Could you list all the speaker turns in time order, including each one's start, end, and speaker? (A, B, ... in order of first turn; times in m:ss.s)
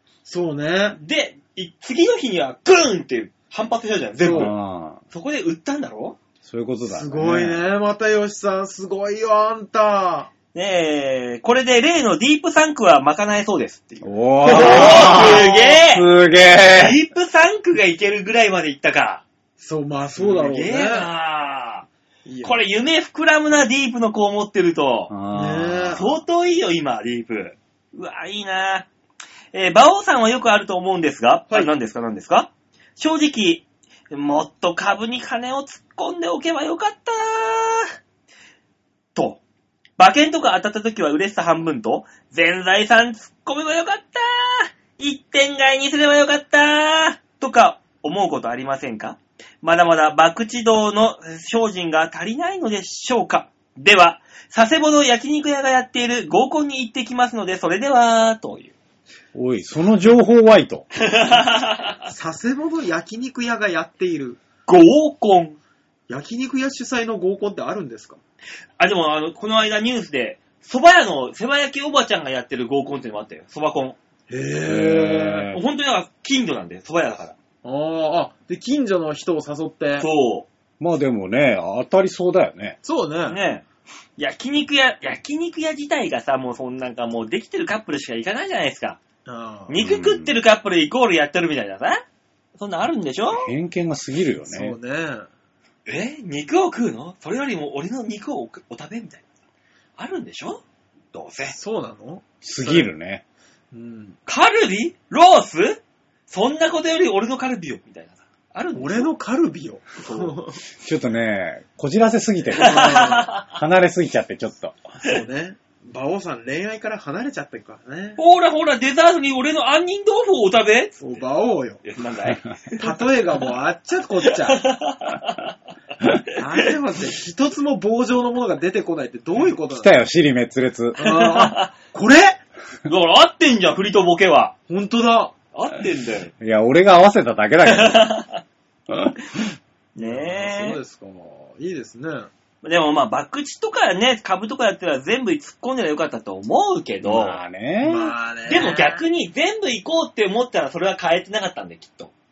0:00.2-0:01.0 A
0:00.9-0:04.5 B
0:04.2-0:04.5 A
0:04.3-0:05.0 C
0:05.1-0:06.2 B
0:06.4-0:07.6 C
0:06.8-0:10.3 A
0:10.5-0:16.1 B
0:14.0-0:17.0 C
0:14.6-0:15.3 A
0:16.6-0:19.2 B
0:19.6-0:21.1 A
0:20.2-0:21.9 B
0:22.2-0:22.6 A
0:22.4-0:25.1 B
0:25.1-0:26.0 C
0:25.3-0:26.0 A
0:25.9-0:28.9 B
0:29.5-0:37.9 B
0:39.1-0:39.4 B
0:40.0-0:58.7 B
0:59.3-1:00.8 C
1:01.0-1:02.0 B
1:02.1-1:04.4 A
1:04.7-1:05.6 B
1:06.1-1:08.2 A
1:08.8-1:14.0 B
1:14.3-1:15.5 A
1:14.6-1:15.6 C
1:15.5-1:17.3 B
1:17.6-1:20.1 A
1:20.0-1:20.5 B
1:20.8-1:22.8 C
1:22.8-1:23.4 A
1:23.3-1:23.6 B
1:24.2-1:29.0 B
1:29.2-1:29.7 A
1:29.7-1:32.0 B
1:29.8-1:30.3 C
1:32.6-1:33.5 B
1:33.3-1:34.8 C
1:34.4-1:35.2 A
1:35.9-1:39.2 B
1:40.0-1:40.6 B
1:41.1-1:41.5 B
1:41.5-1:42.9 A
1:42.4-1:43.2 C
1:43.7-1:44.2 A
1:44.3-1:49.1 B
1:48.8-1:50.6 A
1:50.0-1:50.4 B
1:50.8-1:54.8 C
1:52.5-1:53.3 A
1:52.6-1:53.5 B
1:55.0-1:58.2 A
1:58.2-2:01.2 B
2:01.0-2:01.8 A
2:01.8-2:02.9 B
2:02.8-2:04.6 A
2:04.3-2:05.5 B
2:06.4-2:10.0 A
2:09.7-2:11.0 C
2:11.0-2:12.4 A
2:11.0-2:11.7 B
2:12.8-2:14.5 B
2:14.7-2:15.3 A
2:15.5-2:16.3 B
2:16.4-2:18.1 C
2:17.6-2:18.4 B
2:18.9-2:19.4 C
2:20.0-2:20.8 B
2:20.0-2:22.3 A
2:22.6-2:27.4 B
2:27.0-2:28.1 C
2:27.8-2:29.0 A
2:28.5-2:32.1 B